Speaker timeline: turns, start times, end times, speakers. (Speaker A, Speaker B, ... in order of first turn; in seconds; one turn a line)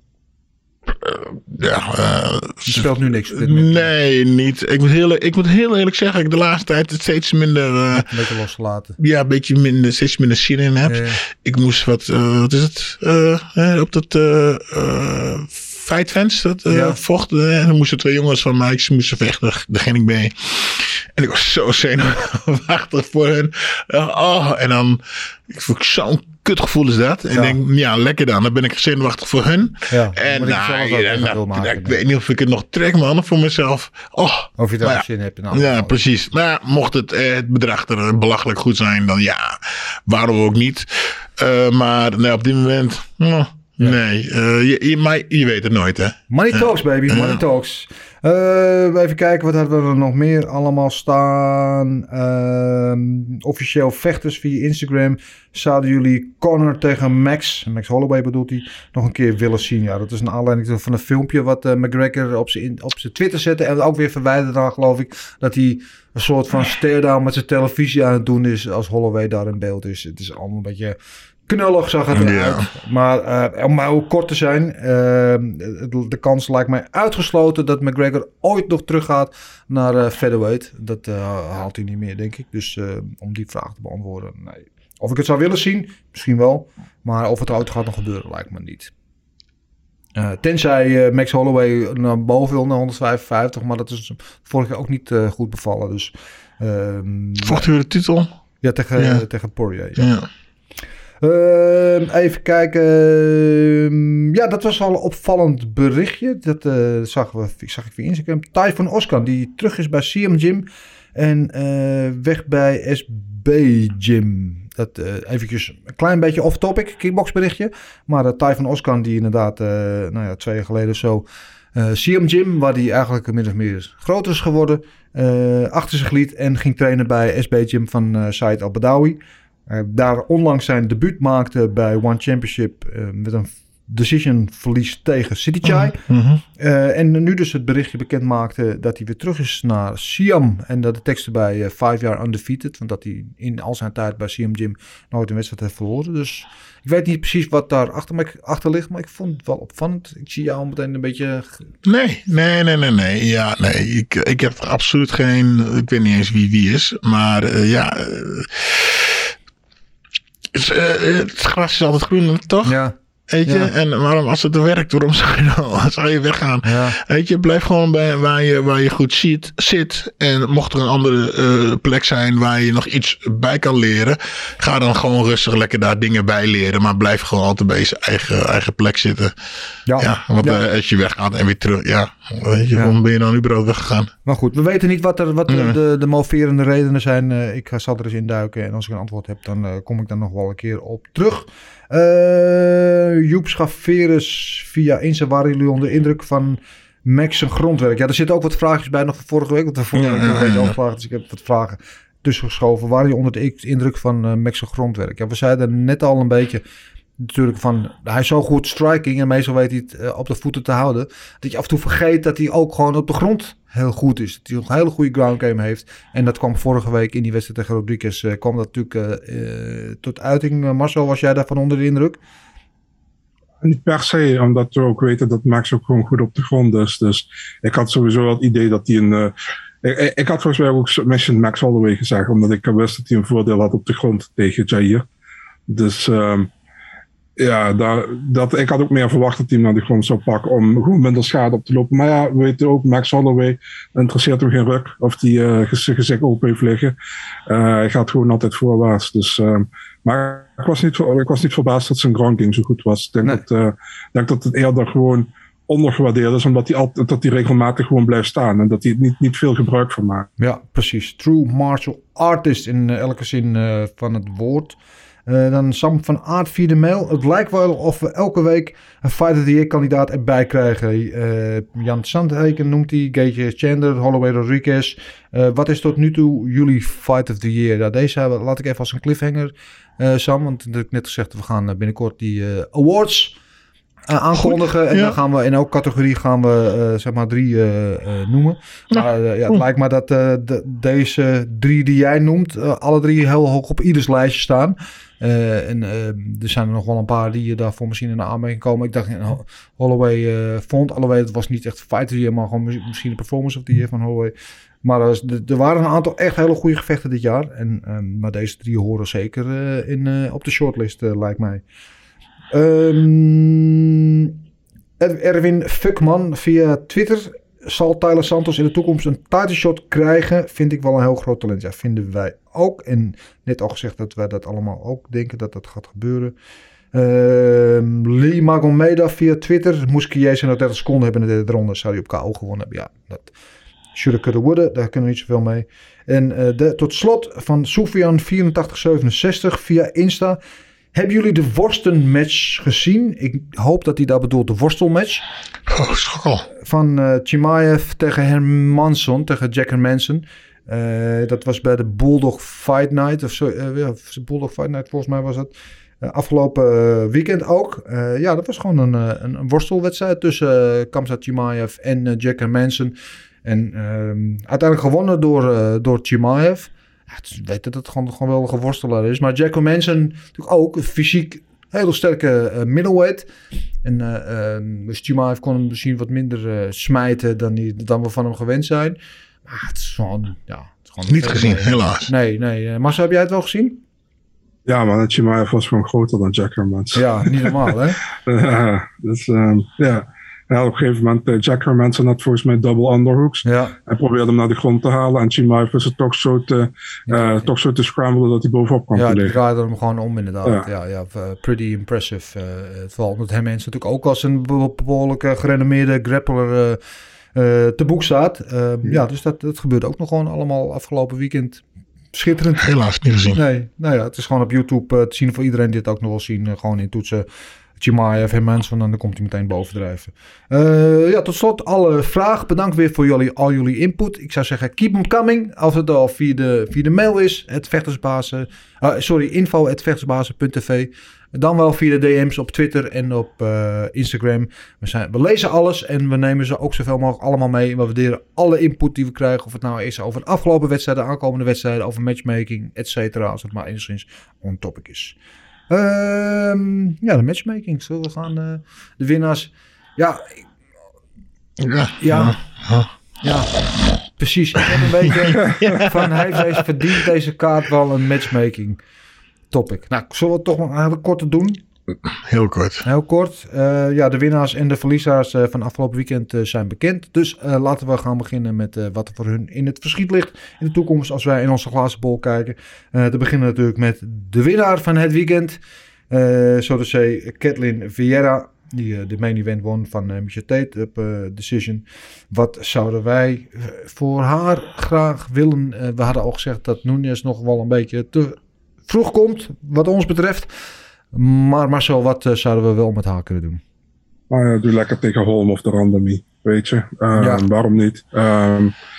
Speaker A: 0.9-8.1
Speaker B: 2.6-3.9
Speaker B: 7.9-8.9
Speaker A: 9.0-47.4
Speaker B: 10.8-11.2
Speaker B: 16.7-17.0
Speaker B: 29.9-32.0
Speaker B: 34.6-35.9
Speaker B: 46.3-71.0
Speaker B: 71.5-88.9
Speaker A: 72.1-72.7
Speaker B: 90.2-97.7
Speaker A: 97.4-98.3
Speaker B: 98.6-100.0
Speaker A: 99.0-99.2
Speaker A: 100.0-100.3
Speaker B: 101.2-110.6
Speaker B: 111.2-136.0
Speaker A: 135.6-136.4
Speaker B: 136.6-151.6
Speaker A: 151.8-159.3
Speaker A: 160.5-162.8
Speaker B: 162.6-163.7
Speaker A: 163.3-179.3
Speaker B: 166.6-167.0
Speaker B: 179.9-180.6
Speaker A: 180.0-184.1
Speaker B: 184.2-206.6
Speaker A: 185.5-185.8
Speaker A: 199.9-200.7
Speaker B: 207.2-222.2
Speaker C: 223.6-235.1
Speaker C: 235.7-236.5
Speaker C: 237.4-246.9
Speaker C: 247.5-260.3
Speaker B: 260.4-264.8
Speaker B: 265.3-283.3
Speaker B: 284.1-311.6
Speaker A: 284.4-285.1
Speaker A: 288.9-289.6
Speaker B: 312.5-314.4
Speaker B: 315.0-326.3
Speaker B: 326.9-333.3
Speaker B: 333.9-340.4
Speaker B: 340.9-345.2
Speaker A: 345.7-346.5
Speaker B: 346.6-373.3
Speaker B: 373.8-383.8
Speaker A: 381.1-382.1
Speaker C: 384.6-387.7
Speaker B: 386.9-388.0
Speaker C: 388.2-399.4
Speaker B: 393.4-393.8
Speaker B: 397.1-397.5
Speaker B: 398.9-406.8
Speaker B: 407.3-412.7
Speaker A: 412.6-413.4
Speaker B: 413.3-417.2
Speaker B: 417.8-445.1
Speaker B: 445.7-450.4
Speaker A: 451.6-452.9
Speaker B: 452.0-452.4
Speaker B: 453.2-453.5
Speaker B: 454.1-458.8
Speaker A: 455.5-456.5
Speaker B: 459.5-461.6
Speaker A: 462.2-462.8
Speaker B: 462.8-490.5
Speaker B: 491.1-493.6
Speaker C: 494.3-498.7
Speaker B: 497.2-497.4